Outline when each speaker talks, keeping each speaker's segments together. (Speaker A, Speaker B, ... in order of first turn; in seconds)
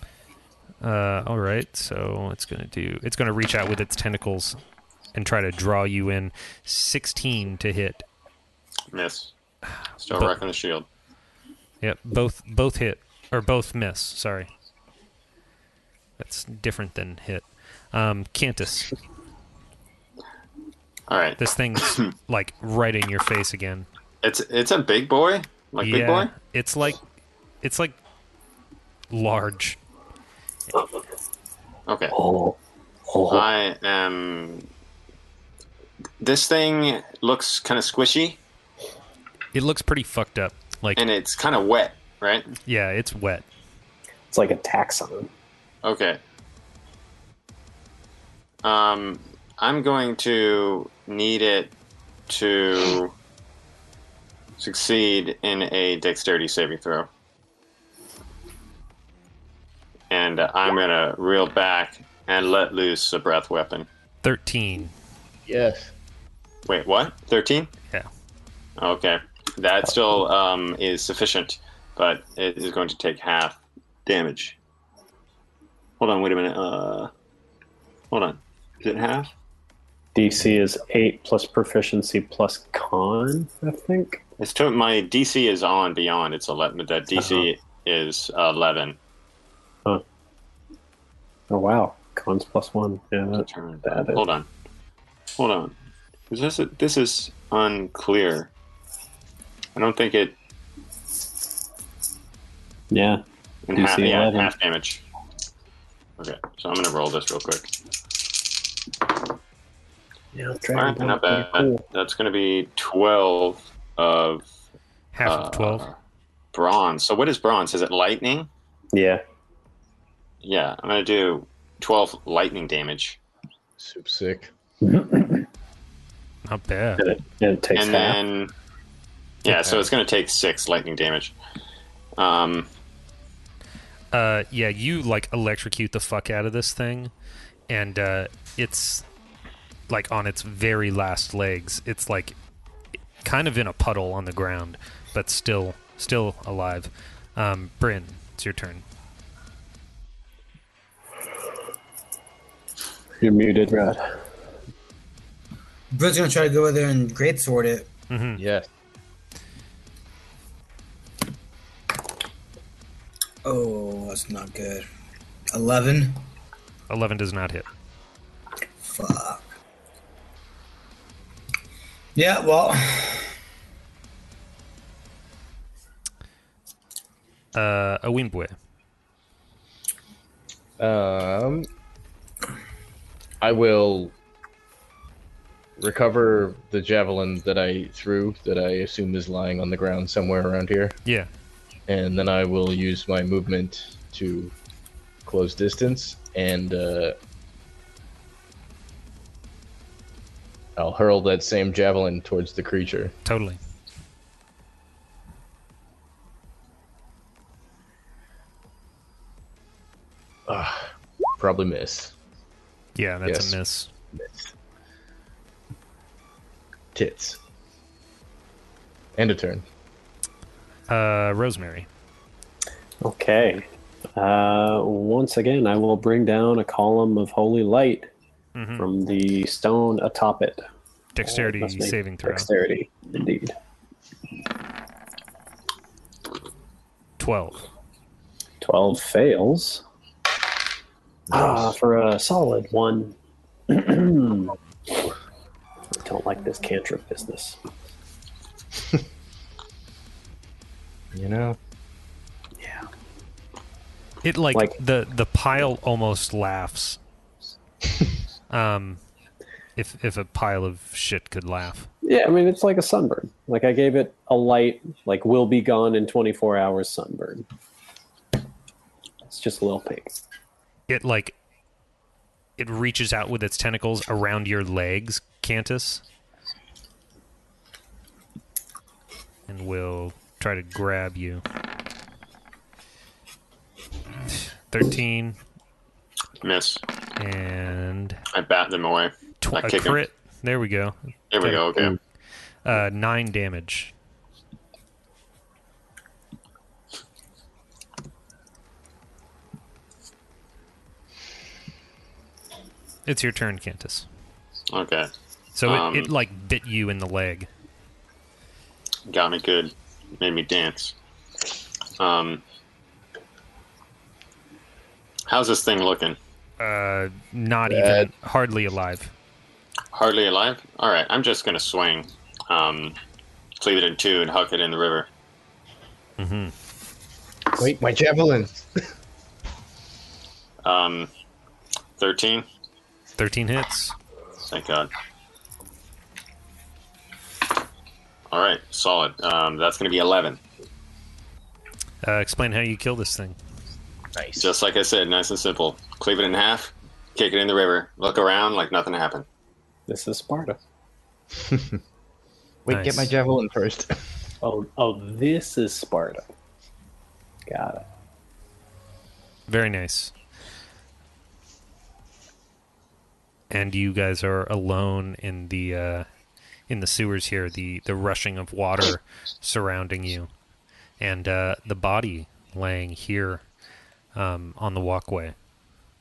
Speaker A: 0.8-4.6, 5.1-8.1, 11.8-14.5, 16.2-18.9, 21.4-23.9, 25.8-27.0, 27.6-28.0, 29.1-29.8, 39.5-41.0, 42.6-43.4, 64.2-64.9, 115.1-115.9, 126.4-127.0, 134.1-137.1, 137.7-139.0, 139.9-142.3, 143.2-148.8, 158.1-158.4, 166.9-167.7, 177.5-178.5, 203.2-203.6, 212.9-213.9, 220.9-221.9, 228.5-228.9, 231.1-232.5, 237.2-237.6, 254.2-257.0, 258.5-259.0, 259.8-261.9, 270.9-271.3, 272.6-276.0, 279.5-281.4, 284.3-285.4, 287.2-288.2, 289.4-291.9, 292.6-293.9, 303.1-304.1, 305.5-307.5, 316.6-319.1, 326.2-326.5, 333.2-333.9, 342.0-343.4, 352.7-353.1, 359.5-360.1, 363.5-366.1, 366.7-370.3, 371.0-373.4, 374.1-375.3
Speaker B: 8.9-9.3, 10.0-10.8, 21.1-22.1, 24.2-26.3, 31.9-32.1, 33.3-34.7, 36.2-38.4, 41.0-42.5, 45.8-46.2, 48.6-51.7, 52.3-53.1, 54.6-57.1, 60.1-63.9, 66.7-67.7, 68.8-74.5, 76.0-77.1, 78.1-79.3, 84.4-89.0, 93.3-94.5, 95.4-95.7, 96.3-98.5, 99.7-100.3, 103.7-105.0, 106.2-107.7, 110.7-114.4, 115.2-115.9, 116.5-118.5, 120.4-123.2, 127.7-128.5, 129.4-131.3, 132.2-132.7, 286.4-286.8, 288.3-290.0, 291.3-291.9, 304.7-305.1, 305.6-306.1, 309.1-310.9, 312.0-312.4, 315.3-316.2, 319.9-323.0, 323.6-325.1, 330.6-331.1, 332.0-332.4, 334.5-334.9, 338.3-340.4, 344.4-349.2
Speaker C: 32.1-33.5, 44.3-45.3, 80.1-84.2, 87.2-87.5, 91.5-94.2, 102.9-103.2, 103.7-104.5, 110.3-111.8, 118.9-119.2, 124.8-125.5, 127.0-128.2, 153.2-154.0, 223.0-228.1, 228.8-230.6, 231.2-233.5, 238.6-239.8, 241.3-243.2, 243.7-244.5, 245.9-247.6, 252.6-252.9, 262.0-267.4, 269.2-270.2, 349.9-350.6, 354.4-356.3, 357.5-357.8
Speaker D: 65.5-65.9, 123.8-124.5, 129.5-129.9, 158.3-158.7, 180.8-181.7, 183.4-184.1, 185.8-191.0, 191.9-194.5, 195.2-197.2, 200.8-203.1, 210.5-212.1, 213.2-213.6, 214.2-214.5, 216.9-217.4, 219.2-219.7, 241.3-241.7, 251.1-251.6, 317.7-318.1, 327.6-328.7, 344.1-344.5, 351.4-351.8, 352.6-354.1
Speaker E: 155.9-157.9, 163.4-164.8, 165.5-166.2, 168.8-169.5, 172.2-173.3